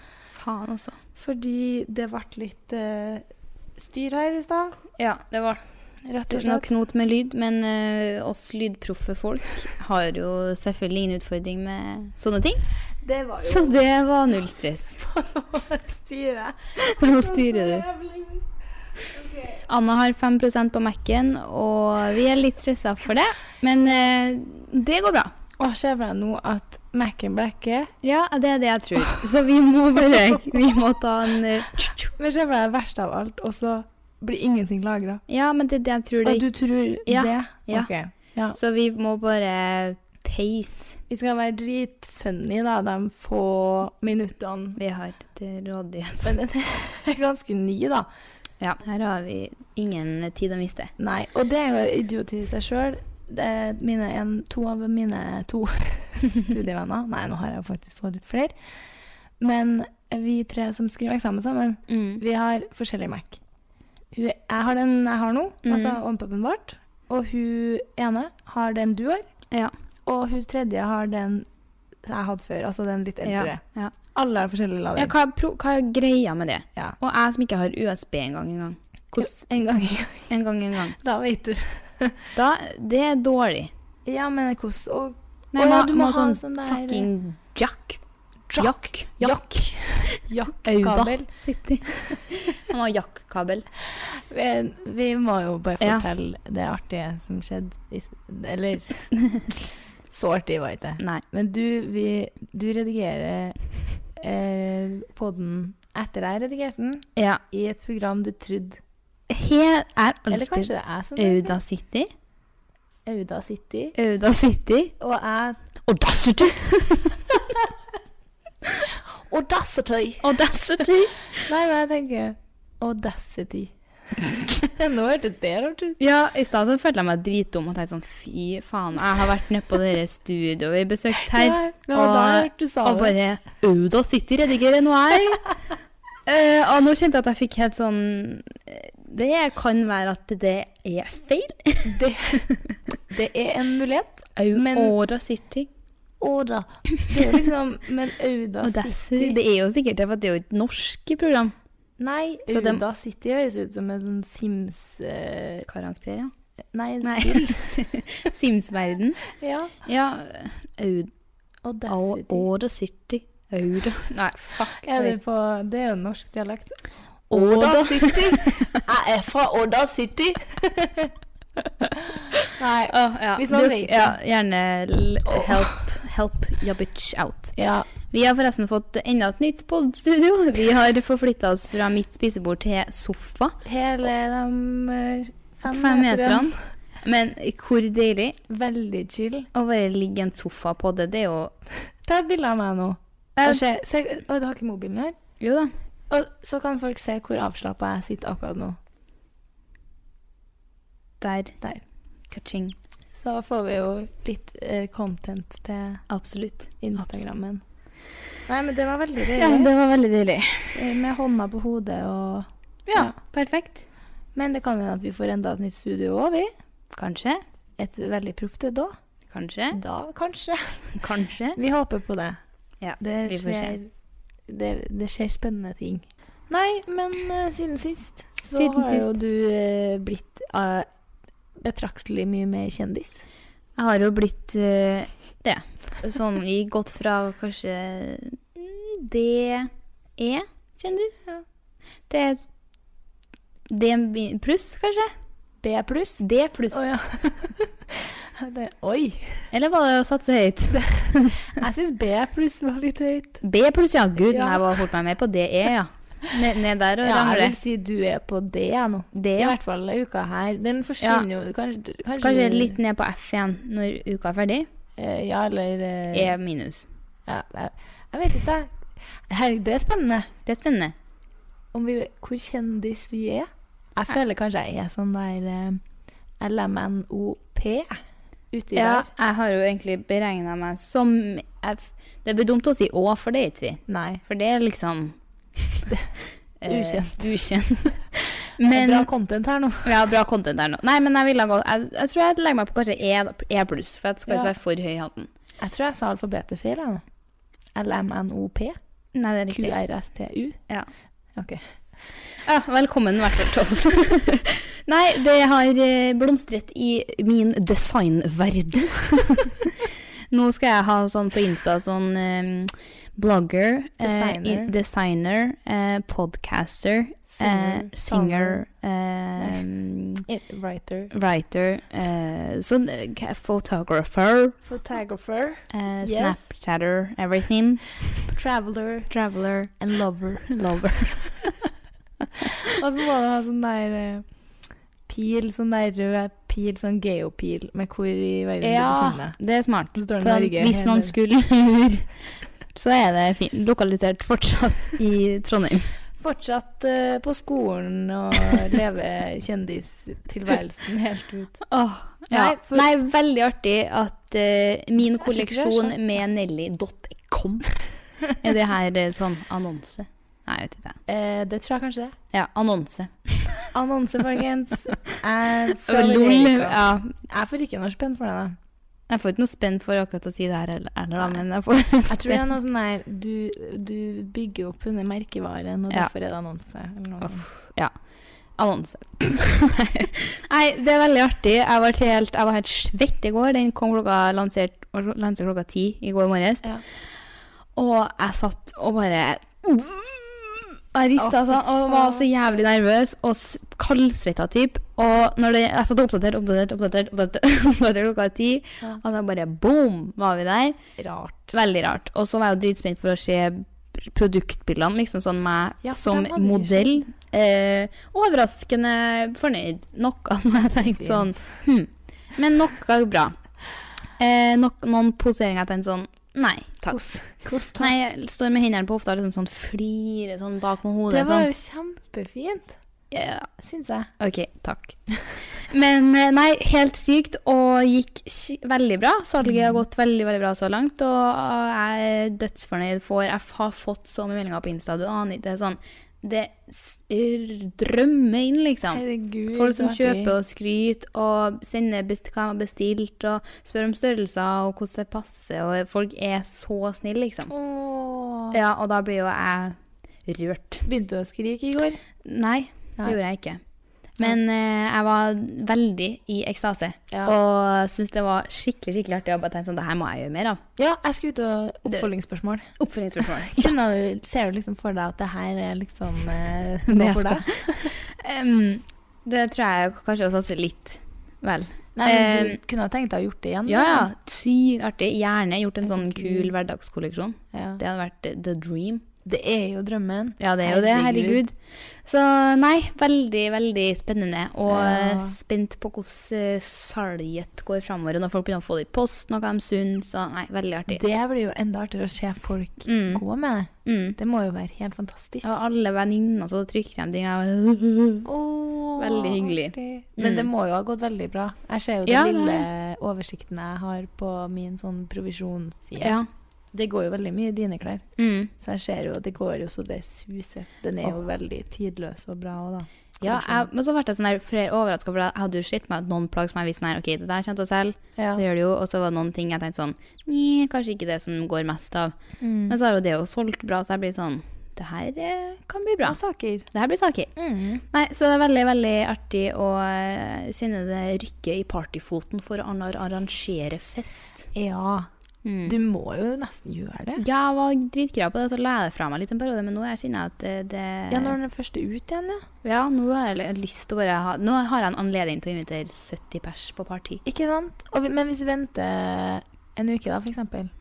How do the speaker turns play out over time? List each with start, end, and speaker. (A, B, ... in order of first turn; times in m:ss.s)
0:00.3-0:01.0 A
0:01.2-0:03.2 B
0:03.8-0:04.8 B
0:05.0-0:05.6 A
0:06.0-0:06.7 B
0:06.3-0:12.6 A
0:13.0-0:13.8 B
0:13.4-0:15.0 A
0:15.0-0:18.5 B
0:16.8-0:17.8 A
0:19.1-0:19.6 B
0:19.7-0:25.3 A
0:25.6-0:27.9 B
0:28.0-0:32.1 A
0:32.0-0:35.2 B
0:35.3-0:36.5 A
0:36.2-0:38.6 B
0:37.0-0:37.9 A
0:38.5-0:41.0 A
0:41.1-0:44.8 B
0:44.8-0:46.4 A
0:46.2-0:48.1 B
0:48.6-0:50.9 A
0:51.0-0:58.6 B
0:59.4-1:03.4 B
1:01.9-1:02.2 A
1:04.1-1:09.3 B
1:05.7-1:06.0 A
1:10.1-1:11.5 B
1:12.0-1:13.6 B
1:13.2-1:13.9 A
1:14.1-1:15.1 B
1:15.0-1:19.4 A
1:19.1-1:20.3 B
1:20.3-1:21.0 A
1:21.0-1:22.2 B
1:22.4-1:23.7 A
1:24.1-1:27.1 B
1:25.5-1:28.0 A
1:28.5-1:31.3 B
1:28.6-1:33.7 A
1:31.8-1:32.2 B
1:34.0-1:43.6 B
1:35.8-1:36.1 A
1:44.1-1:48.8 B
1:47.2-1:47.4 A
1:49.3-1:52.1 A
1:50.3-1:51.6 B
1:53.0-1:54.0 B
1:54.0-1:54.9 A
1:55.0-1:55.6 B
1:55.8-1:57.4 A
1:58.9-2:00.4 B
2:00.2-2:01.5 A
2:01.4-2:03.7 B
2:04.5-2:06.0 B
2:06.0-2:15.5 A
2:11.3-2:13.2 B
2:16.3-2:22.8 A
2:21.8-2:22.4 B
2:23.1-2:25.0 B
2:24.4-2:25.7 A
2:26.2-2:29.4 B
2:28.6-2:31.5 A
2:32.0-2:35.7 B
2:32.5-2:32.8 A
2:35.7-2:36.3 A
2:36.7-2:37.8 B
2:37.0-2:39.2 A
2:39.3-2:39.8 B
2:39.8-2:41.1 A
2:41.6-2:42.5 B
2:41.9-2:45.2 A
2:44.8-2:46.8 B
2:47.3-2:51.1 B
2:47.3-2:48.8 A
2:52.0-2:54.2 B
2:52.9-2:57.5 A
2:55.3-2:55.5 B
2:57.6-2:57.9 B
2:58.1-3:03.6 A
3:03.6-3:06.6 B
3:05.7-3:08.4 A
3:08.5-3:09.5 B
3:09.5-3:11.5 A
3:12.0-3:15.2 B
3:13.4-3:13.6 A
3:15.4-3:15.7 A
3:16.1-3:18.8 B
3:21.2-3:21.6 A
3:22.3-3:22.8 A
3:23.1-3:26.0 B
3:26.1-3:27.2 A
3:26.8-3:27.6 B
3:28.5-3:29.7 B
3:29.4-3:30.8 A
3:30.7-3:33.2 B
3:32.9-3:33.8 A
3:34.4-3:36.5 B
3:36.9-3:37.4 A
3:37.8-3:38.9 B
3:39.3-3:39.8 A
3:39.7-3:41.0 B
3:41.0-3:41.6 A
3:41.6-3:42.4 B
3:42.8-3:43.8 A
3:43.0-3:43.9 B
3:44.5-3:50.9 B
3:48.5-3:49.1 A
3:51.6-3:53.2 B
3:53.8-4:01.2 A
4:02.1-4:02.4 A
4:03.7-4:05.1 A
4:05.6-4:09.5 B
4:06.2-4:06.9 A
4:09.5-4:11.5 A
4:10.7-4:13.4 B
4:13.4-4:17.6 A
4:14.3-4:14.9 B
4:17.0-4:22.8 B
4:19.1-4:19.6 A
4:21.0-4:21.3 A
4:22.2-4:24.7 A
4:25.0-4:26.4 B
4:26.1-4:26.9 A
4:27.3-4:28.7 B
4:29.3-4:30.3 B
4:30.5-4:31.0 A
4:31.7-4:35.8 B
4:36.4-4:38.0 B
4:38.5-4:39.1 B
4:38.7-4:45.9 A
4:43.9-4:44.2 B
4:46.6-4:49.1 A
4:46.7-4:47.2 B
4:48.6-4:49.9 B
4:49.8-4:55.3 A
4:54.3-4:54.5 B
4:55.6-4:57.0 B
4:57.8-4:58.8 B
4:59.2-4:59.8 A
4:59.5-5:00.6 B
5:01.4-5:01.6 B
5:02.4-5:20.2 A
5:14.0-5:14.7 B
5:17.3-5:18.6 B
5:19.4-5:19.6 B
5:20.3-5:21.1 B
5:21.1-5:24.6 A
5:24.6-5:26.4 B
5:25.7-5:27.9 A
5:28.3-5:29.1 B
5:29.1-5:29.7 A
5:29.8-5:31.5 B
5:32.4-5:34.2 B
5:35.1-5:39.4 B
5:38.6-5:42.1 A
5:40.0-5:41.1 B
5:42.7-5:45.9 A
5:46.2-5:51.6 B
5:51.7-5:57.7 A
5:52.3-5:52.9 B
5:55.0-5:56.0 B
5:58.4-6:01.0 A
6:01.1-6:02.2 B
6:02.3-6:03.6 A
6:03.7-6:08.6 B
6:05.8-6:07.1 A
6:09.1-6:12.5 A
6:12.1-6:17.4 B
6:17.2-6:17.9 A
6:18.6-6:26.7 A
6:27.8-6:40.8 A
6:31.2-6:32.3 B
6:41.0-6:41.6 B
6:41.5-6:53.4 A
6:45.8-6:47.0 B
6:50.5-6:51.4 B
6:54.2-6:57.0 A
6:56.9-6:57.9 B
6:57.8-7:01.5 A
7:01.1-7:02.8 B
7:03.1-7:03.5 A
7:03.6-7:04.1 B
7:04.2-7:05.0 A
7:05.6-7:27.5 A
7:09.4-7:09.8 B
7:18.9-7:20.3 B
7:27.5-7:28.6 B
7:28.5-7:30.9 A
7:30.8-7:32.0 B
7:32.2-7:33.6 A
7:34.2-7:40.6 A
7:40.8-7:48.0 B
7:42.8-7:43.7 A
7:46.9-7:52.6 A
7:52.0-7:54.1 B
7:53.7-7:59.0 A
7:55.8-7:56.5 B
7:57.5-7:57.8 B
7:59.2-8:01.4 B
8:00.4-8:11.0 A
8:04.7-8:05.4 B
8:10.9-8:15.5 B
8:12.8-8:13.2 A
8:13.8-8:14.2 A
8:15.4-8:18.3 A
8:18.2-8:26.2 B
8:19.0-8:20.5 A
8:22.1-8:22.7 A
8:26.0-8:26.3 A
8:26.7-8:33.7 B
8:28.2-8:28.5 A
8:33.2-8:42.2 A
8:38.2-8:38.4 B
8:42.4-8:42.8 B
8:42.7-8:46.2 A
8:46.0-8:46.7 B
8:46.7-8:47.3 A
8:47.4-8:47.8 B
8:47.9-8:54.5 A
8:54.5-8:55.1 B
8:55.4-8:55.7 A
8:55.6-8:57.2 B
8:57.2-9:01.4 A
9:01.1-9:02.4 B
9:02.6-9:07.2 A
9:07.2-9:10.7 B